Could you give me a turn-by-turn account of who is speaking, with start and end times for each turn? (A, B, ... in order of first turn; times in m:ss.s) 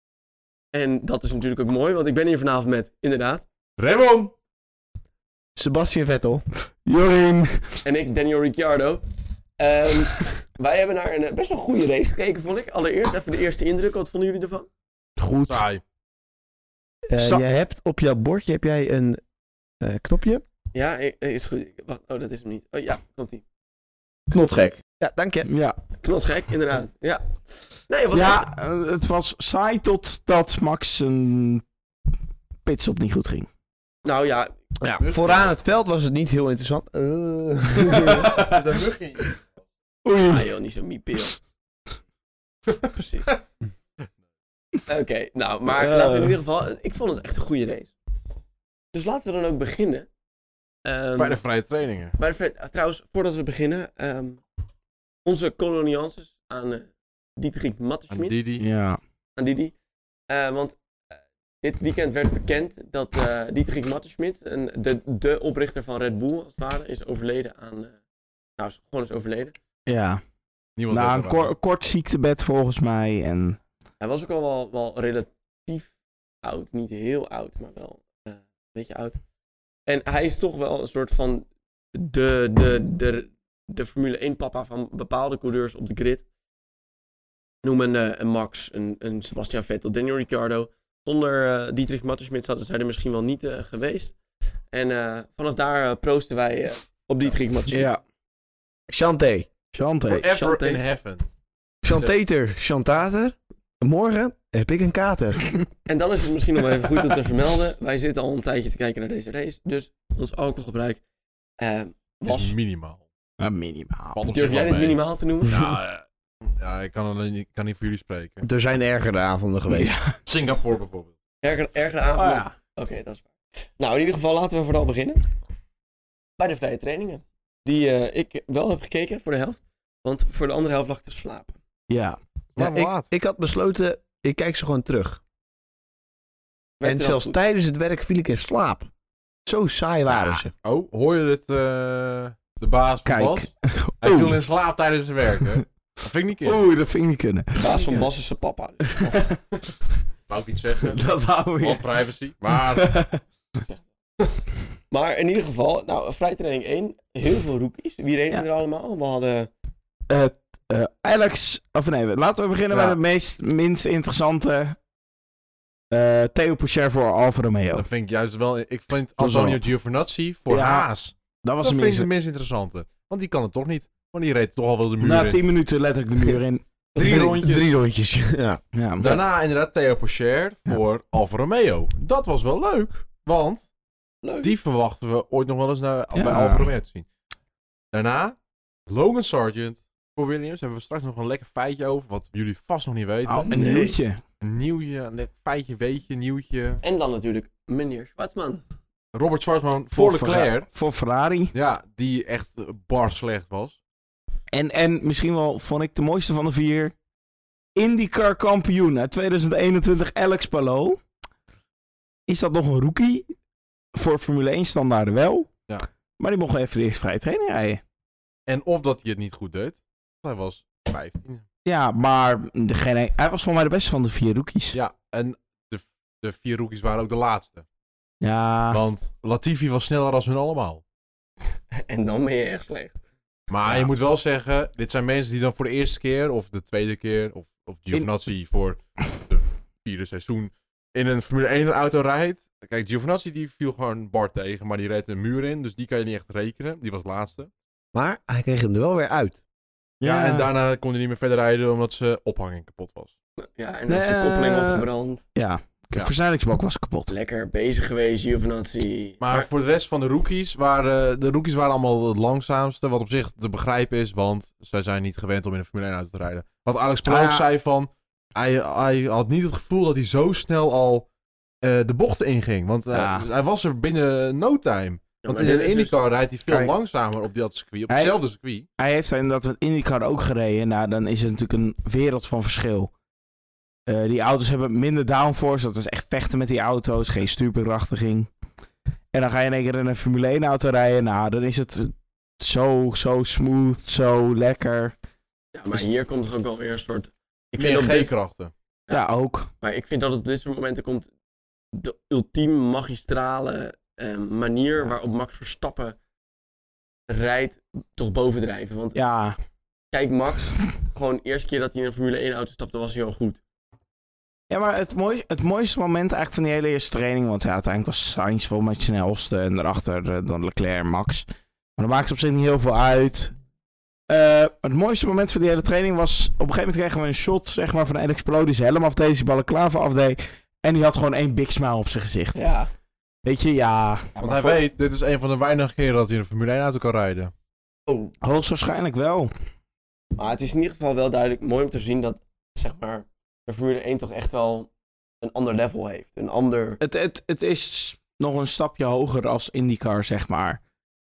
0:00.7-0:03.4 A
0:03.8-0:04.3 B
0:05.6-0:06.4 C
0:06.9-0:07.8 D
0:07.8-0:09.0 A
0:09.6-0:14.7 A
0:15.2-0:15.6 D
0:15.5-0:15.8 B
0:17.1-0:19.2 C
0:17.2-0:17.4 D
0:19.8-0:20.4 C
0:20.7-0:23.4 A
0:24.3-0:25.5 C
0:25.4-0:25.8 D
0:26.0-0:27.3 A
0:27.9-0:28.5 A
0:28.1-0:31.6 D
0:32.6-0:33.5 D
0:34.0-0:34.6 A
0:34.8-0:38.3 C
0:35.0-0:35.5 B
0:37.9-0:38.3 A
0:38.1-0:38.6 D
0:38.3-0:39.4 B
0:40.0-0:40.4 D
0:40.2-0:41.4 A
0:42.8-0:43.4 A
0:44.9-0:47.9 A
0:45.7-0:46.3 D
0:48.9-0:50.1 A
0:50.8-0:51.4 A
0:51.2-0:52.2 B
0:52.2-0:54.4 A
0:55.2-0:58.4 A
0:58.1-0:58.6 B
0:58.6-0:59.0 D
0:59.4-0:59.7 A
1:00.3-1:00.8 A
1:01.6-1:08.0 A
1:08.6-1:09.6 A
1:09.9-1:10.2 D
1:10.8-1:11.5 B
1:10.9-1:13.6 D
1:14.0-1:19.2 A
1:19.9-1:26.3 A
1:27.6-1:34.2 A
1:34.7-1:38.0 A
1:37.7-1:38.0 D
1:38.9-1:39.5 C
1:39.7-1:40.3 D
1:40.1-1:41.2 B
1:40.3-1:40.8 A
1:41.8-1:45.5 C
1:45.9-1:51.0 A
1:51.6-1:52.6 A
1:52.3-1:53.0 B
1:53.4-1:54.2 D
1:54.2-1:56.0 B
1:54.3-1:55.6 A
1:56.6-1:58.4 B
1:58.4-1:59.9 C
1:59.7-2:00.2 D
2:00.2-2:01.1 B
2:01.4-2:05.3 A
2:02.2-2:02.5 D
2:06.4-2:11.6 A
2:11.9-2:12.2 D
2:12.6-2:13.1 B
2:12.6-2:15.2 C
2:16.8-2:17.4 A
2:16.8-2:18.9 C
2:19.5-2:20.5 C
2:20.6-2:23.5 B
2:23.1-2:24.4 D
2:24.0-2:26.6 B
2:26.4-2:27.9 D
2:27.6-2:29.4 A
2:29.0-2:29.3 D
2:30.3-2:32.9 B
2:30.9-2:31.8 D
2:32.8-2:33.2 D
2:34.9-2:39.5 A
2:40.1-2:44.8 D
2:45.9-2:47.9 D
2:47.8-2:55.4 B
2:49.2-2:49.6 C
2:50.5-2:50.9 D
2:51.4-2:52.1 D
2:55.0-2:56.6 D
2:57.0-2:57.7 B
2:57.0-2:57.3 A
2:57.0-2:59.2 C
2:58.7-2:59.0 D
2:59.0-3:03.7 B
3:04.2-3:04.5 A
3:04.4-3:07.1 B
3:06.2-3:06.7 D
3:07.9-3:08.4 B
3:08.9-3:13.6 B
3:13.3-3:14.2 D
3:13.5-3:14.0 A
3:14.4-3:16.8 B
3:16.8-3:18.6 A
3:19.1-3:20.7 B
3:19.9-3:21.5 D
3:21.5-3:23.8 B
3:24.5-3:26.9 D
3:27.8-3:31.0 D
3:32.3-3:33.3 D
3:34.0-3:35.5 D
3:36.2-3:37.8 D
3:38.5-3:41.4 B
3:41.6-3:44.8 D
3:44.7-3:47.6 B
3:48.2-3:48.8 D
3:48.7-3:50.8 B
3:51.7-3:53.0 A
3:53.5-4:07.5 B
4:07.9-4:09.4 C
4:10.0-4:10.5 D
4:10.0-4:13.1 B
4:13.4-4:15.2 A
4:13.9-4:17.1 D
4:17.1-4:19.5 A
4:19.2-4:31.1 B
4:27.0-4:27.5 D
4:31.6-4:38.7 B
4:32.9-4:33.3 D
4:35.2-4:36.0 A
4:38.8-4:42.9 D
4:43.9-4:48.3 D
4:49.1-4:54.9 D
4:55.5-4:58.1 A
4:57.6-4:58.5 B
4:58.9-4:59.5 D
4:59.6-5:01.1 A
5:01.7-5:06.0 A
5:07.1-5:09.0 A
5:09.0-5:09.4 D
5:09.9-5:13.4 A
5:14.5-5:21.3 D
5:21.8-5:23.3 D
5:24.1-5:32.4 D
5:32.4-5:32.7 A
5:33.2-5:34.1 D
5:34.2-5:34.6 A
5:34.2-5:37.3 B
5:38.2-5:39.3 D
5:40.2-5:46.8 A
5:46.8-5:50.6 D